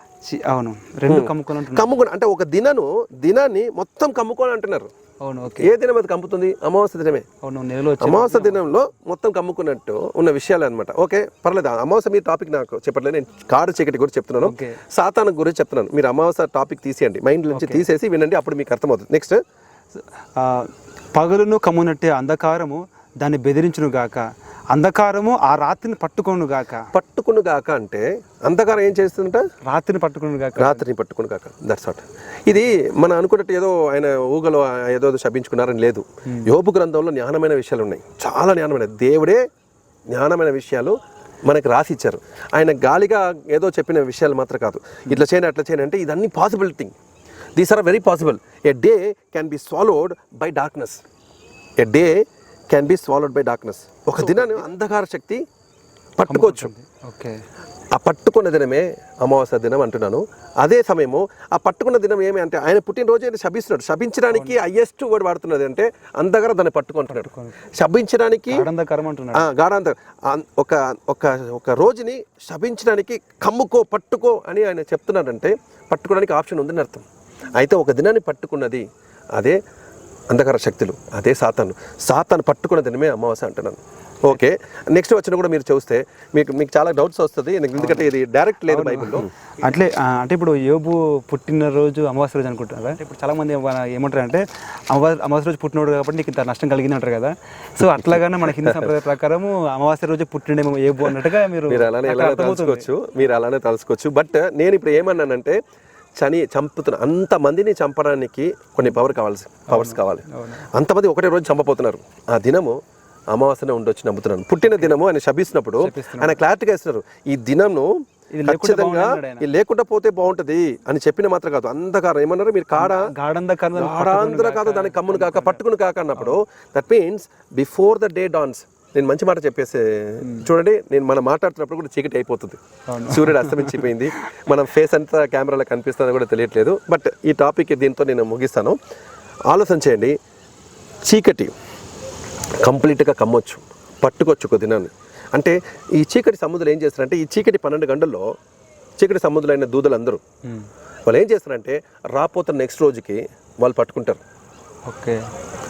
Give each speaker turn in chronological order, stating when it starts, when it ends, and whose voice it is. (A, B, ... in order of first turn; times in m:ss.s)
0:00.2-0:01.9 A
0:01.1-0:04.9 B
0:05.2-0:05.7 A
0:05.6-0:07.3 B
0:07.4-0:08.6 A
0:08.0-0:19.4 B
0:14.4-0:14.8 A
0:17.5-0:17.8 A
0:20.4-0:24.2 A
0:24.7-0:26.9 A
0:26.9-0:29.4 B
0:29.6-0:30.8 A
0:30.6-0:39.4 B
0:40.1-0:46.9 B
0:47.6-0:51.0 B
0:51.8-0:55.4 B
0:54.2-0:54.6 A
0:56.2-0:56.7 B
0:56.3-0:57.4 A
0:57.9-1:08.6 B
1:04.3-1:04.6 A
1:07.1-1:07.6 A
1:08.5-1:09.5 A
1:09.3-1:18.8 B
1:20.3-1:29.3 B
1:27.8-1:28.1 A
1:28.7-1:42.9 A
1:37.8-1:38.9 B
1:41.0-1:45.6 B
1:46.2-1:57.9 B
1:49.7-1:50.6 A
1:54.6-1:54.9 A
1:55.8-1:56.4 A
1:58.3-1:59.4 A
1:58.4-2:03.1 B
2:02.8-2:05.6 A
2:03.8-2:18.8 B
2:10.2-2:10.5 A
2:12.9-2:14.5 A
2:19.5-2:20.1 B
2:21.0-2:21.5 B
2:22.6-2:28.3 B
2:29.0-2:30.2 B
2:31.1-2:34.2 B
2:34.9-2:35.2 A